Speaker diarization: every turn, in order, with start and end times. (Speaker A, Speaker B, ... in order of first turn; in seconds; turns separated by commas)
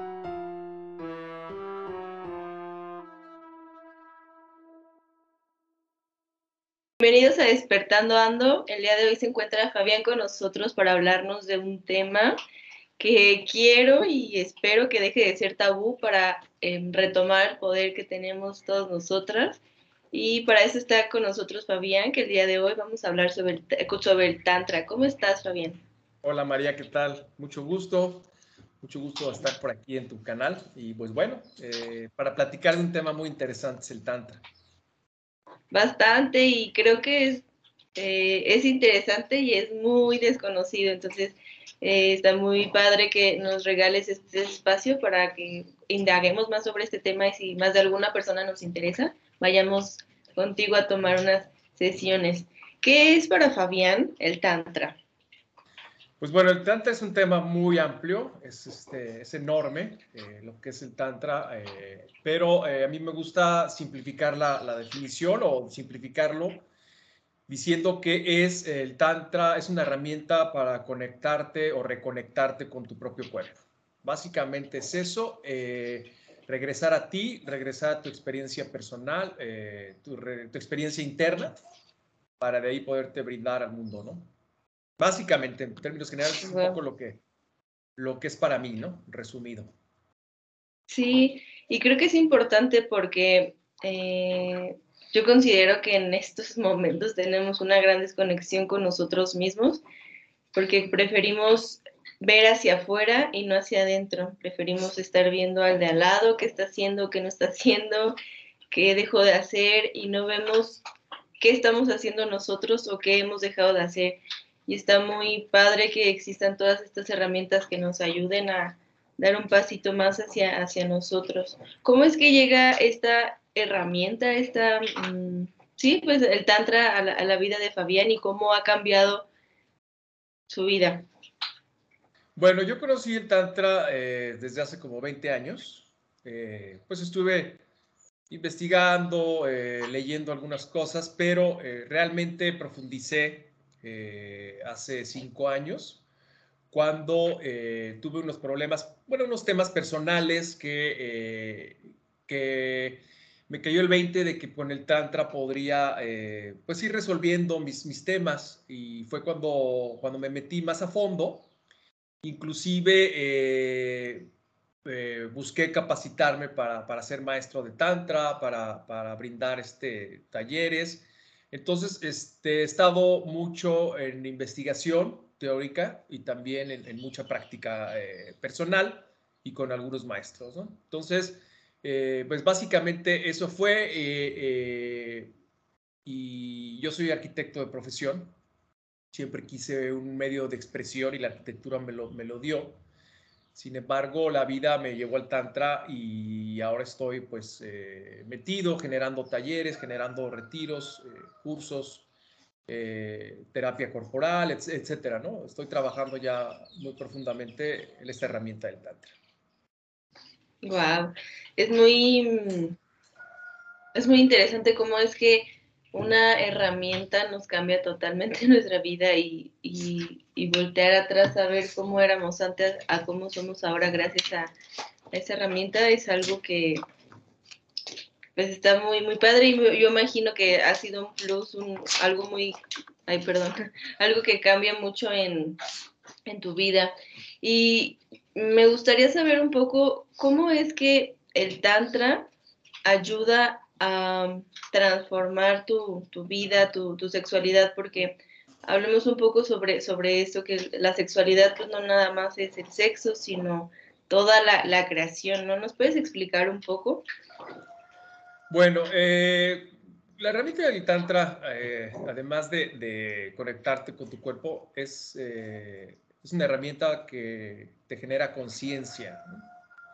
Speaker A: 7.0-12.4, Speaker A: 13.0-19.6, Speaker A: 20.1-25.8, Speaker B: 26.2-28.3, Speaker B: 28.8-34.4, Speaker A: 35.7-55.0, Speaker B: 56.2-66.7, Speaker B: 67.5-81.6, Speaker B: 82.4-84.3, Speaker B: 85.0-87.2, Speaker A: 86.4-86.8, Speaker B: 88.0-89.7, Speaker A: 90.9-99.8, Speaker A: 100.5-108.2, Speaker A: 108.7-110.8, Speaker A: 111.4-129.3, Speaker A: 130.5-131.1, Speaker B: 132.4-137.6, Speaker B: 138.3-146.0, Speaker B: 146.7-161.5, Speaker B: 162.2-164.3, Speaker B: 164.8-185.3, Speaker B: 186.1-188.4, Speaker B: 189.1-192.8, Speaker B: 193.5-202.1, Speaker B: 202.7-209.1, Speaker A: 210.6-212.8, Speaker A: 213.9-224.5, Speaker A: 225.1-226.8, Speaker A: 228.3-235.6, Speaker A: 236.3-242.3, Speaker A: 242.9-257.0, Speaker B: 258.5-269.4